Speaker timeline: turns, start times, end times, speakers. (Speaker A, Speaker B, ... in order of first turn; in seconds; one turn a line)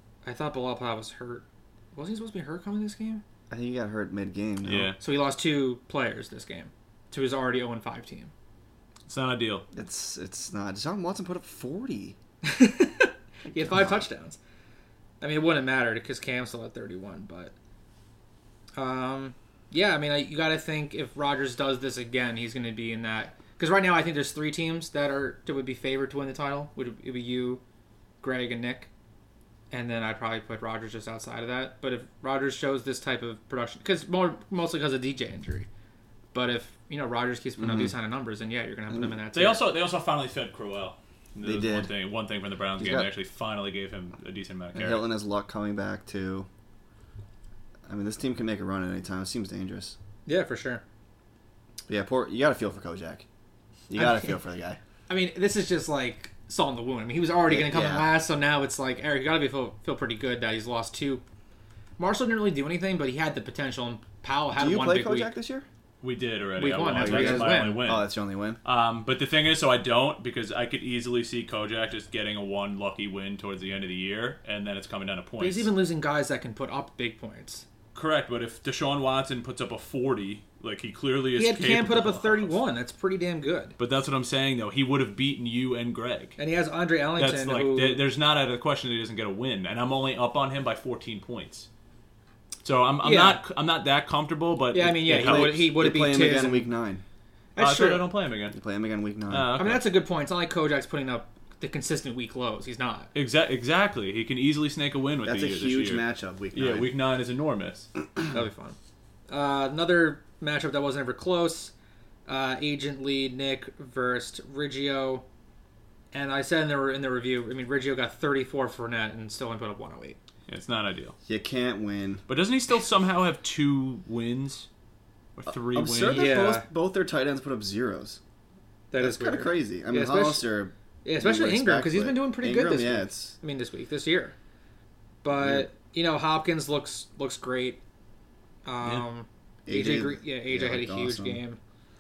Speaker A: 0.2-3.2
Speaker B: 3.5-4.9
Speaker C: 4.6-5.0
Speaker A: 5.0-8.3
Speaker C: 9.1-9.7
Speaker B: 9.7-12.2
Speaker A: 12.4-14.4
Speaker B: 13.5-14.0
Speaker A: 15.2-17.5
Speaker A: 18.8-27.6
Speaker A: 28.2-28.9
Speaker A: 29.7-35.7
Speaker A: 36.3-39.6
Speaker B: 37.6-37.9
Speaker C: 39.3-45.0
Speaker B: 41.4-41.9
Speaker B: 42.8-43.1
Speaker B: 44.8-46.5
Speaker B: 47.9-50.0
Speaker A: 50.3-50.8
Speaker B: 51.9-53.2
Speaker B: 53.9-54.8
Speaker A: 54.0-54.4
Speaker A: 55.1-61.2
Speaker B: 57.5-58.1
Speaker A: 62.0-65.3
Speaker B: 64.6-65.7
Speaker C: 66.0-68.1
Speaker A: 66.6-67.8
Speaker B: 66.9-68.6
Speaker C: 68.7-75.7
Speaker A: 75.4-77.7
Speaker C: 77.9-82.6
Speaker A: 81.4-83.8
Speaker C: 83.8-86.4
Speaker A: 86.4-88.0
Speaker C: 87.2-91.7
Speaker C: 92.6-95.7
Speaker A: 93.0-93.4
Speaker A: 94.7-96.7
Speaker B: 95.1-97.0
Speaker A: 97.6-98.1
Speaker C: 97.6-98.6
Speaker B: 98.5-99.6
Speaker C: 99.3-99.9
Speaker A: 99.6-103.1
Speaker C: 103.2-107.9
Speaker B: 105.2-106.9
Speaker A: 108.3-108.8
Speaker A: 109.3-111.7
Speaker A: 112.3-115.2
Speaker A: 116.1-120.2
Speaker C: 120.5-121.2
Speaker B: 121.2-122.2
Speaker C: 122.3-124.7
Speaker C: 125.4-126.3
Speaker B: 125.5-128.2
Speaker A: 126.1-126.7
Speaker A: 128.9-130.5
Speaker B: 129.0-133.3
Speaker A: 131.0-134.4
Speaker A: 135.2-137.8
Speaker B: 135.4-135.7
Speaker A: 138.7-141.6
Speaker B: 139.7-141.4